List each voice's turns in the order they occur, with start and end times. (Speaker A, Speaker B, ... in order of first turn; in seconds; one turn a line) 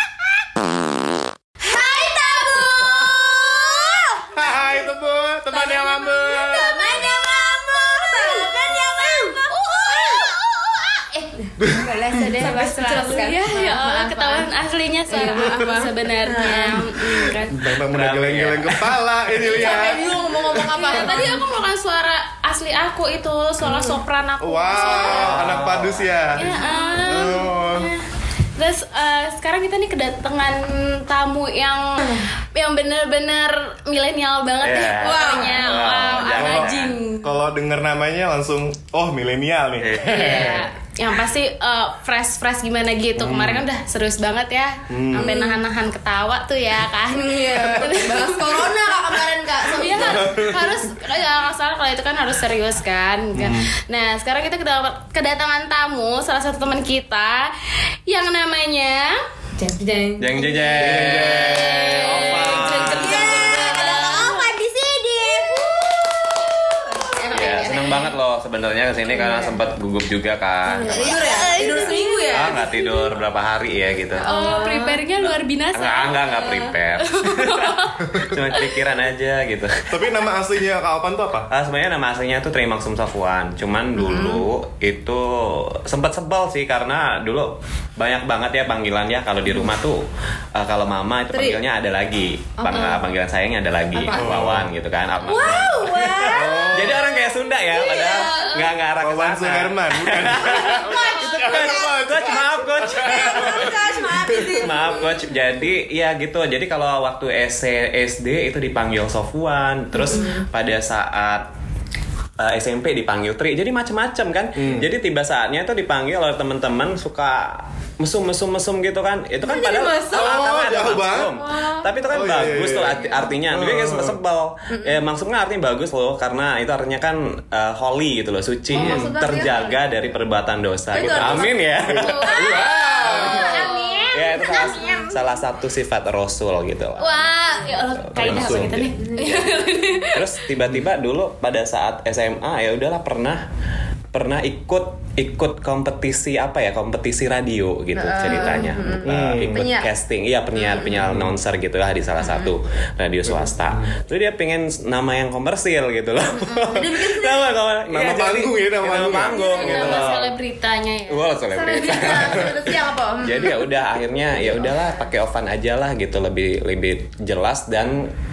Speaker A: 1.7-3.9
Speaker B: 1.7-4.2
Speaker C: 4.3-6.9
Speaker A: 5.5-10.4
Speaker B: 6.9-11.1
Speaker D: 9.5-10.1
Speaker A: 11.4-14.5
Speaker C: 11.6-12.2
Speaker D: 11.9-17.8
Speaker A: 15.1-16.9
Speaker C: 15.2-15.8
Speaker C: 16.5-21.4
Speaker E: 17.9-18.9
Speaker A: 19.4-21.3
Speaker D: 19.4-25.5
Speaker A: 23.6-24.0
Speaker C: 24.4-26.5
Speaker A: 24.8-25.2
Speaker E: 25.1-26.3
Speaker D: 26.4-28.0
Speaker A: 26.5-27.4
Speaker C: 27.0-27.9
Speaker D: 28.6-37.4
Speaker E: 34.6-37.0
Speaker A: 35.0-35.9
Speaker C: 36.4-40.7
Speaker E: 39.8-40.6
Speaker D: 40.0-48.7
Speaker C: 43.2-43.6
Speaker C: 44.9-45.4
Speaker A: 45.2-45.6
Speaker A: 47.1-50.5
Speaker D: 49.6-59.2
Speaker C: 49.9-50.7
Speaker C: 53.4-53.7
Speaker A: 59.6-60.8
Speaker E: 60.2-63.4
Speaker C: 60.8-62.9
Speaker D: 61.0-64.4
Speaker B: 63.0-66.9
Speaker A: 63.0-64.4
Speaker A: 65.2-65.7
Speaker A: 66.9-68.1
Speaker E: 67.3-74.2
Speaker D: 67.4-67.9
Speaker A: 69.1-69.6
Speaker B: 70.8-72.3
Speaker A: 70.8-72.7
Speaker D: 71.6-72.8
Speaker A: 74.2-75.0
Speaker D: 74.2-78.8
Speaker E: 75.7-80.3
Speaker C: 79.9-81.5
Speaker E: 81.5-90.0
Speaker A: 84.0-84.5
Speaker E: 90.5-111.5
Speaker A: 91.3-91.6
Speaker A: 92.6-93.0
Speaker A: 94.0-94.3
Speaker C: 94.1-94.7
Speaker A: 95.3-97.0
Speaker C: 96.3-97.0
Speaker A: 97.7-98.5
Speaker D: 97.8-98.7
Speaker C: 99.0-104.7
Speaker A: 100.5-101.9
Speaker A: 103.0-105.2
Speaker A: 109.9-110.4
Speaker E: 112.4-133.6
Speaker C: 114.6-114.9
Speaker A: 119.4-120.5
Speaker C: 120.1-121.4
Speaker A: 121.4-121.9
Speaker C: 122.1-124.2
Speaker A: 124.7-125.0
Speaker C: 128.7-129.1
Speaker A: 128.7-129.8
Speaker A: 130.9-131.6
Speaker C: 131.0-133.7
Speaker D: 131.9-135.0
Speaker A: 132.5-135.1
Speaker B: 133.4-135.1
Speaker E: 134.1-137.2
Speaker D: 137.0-140.3
Speaker E: 137.8-143.4
Speaker C: 138.1-138.9
Speaker A: 139.0-139.4
Speaker E: 144.1-160.3
Speaker A: 147.9-149.9
Speaker C: 149.0-149.7
Speaker C: 151.0-151.4
Speaker C: 153.2-153.9
Speaker A: 156.6-157.5
Speaker C: 157.9-160.2
Speaker D: 159.3-161.3
Speaker A: 159.5-160.0
Speaker E: 161.1-168.1
Speaker A: 161.5-163.7
Speaker A: 164.6-165.0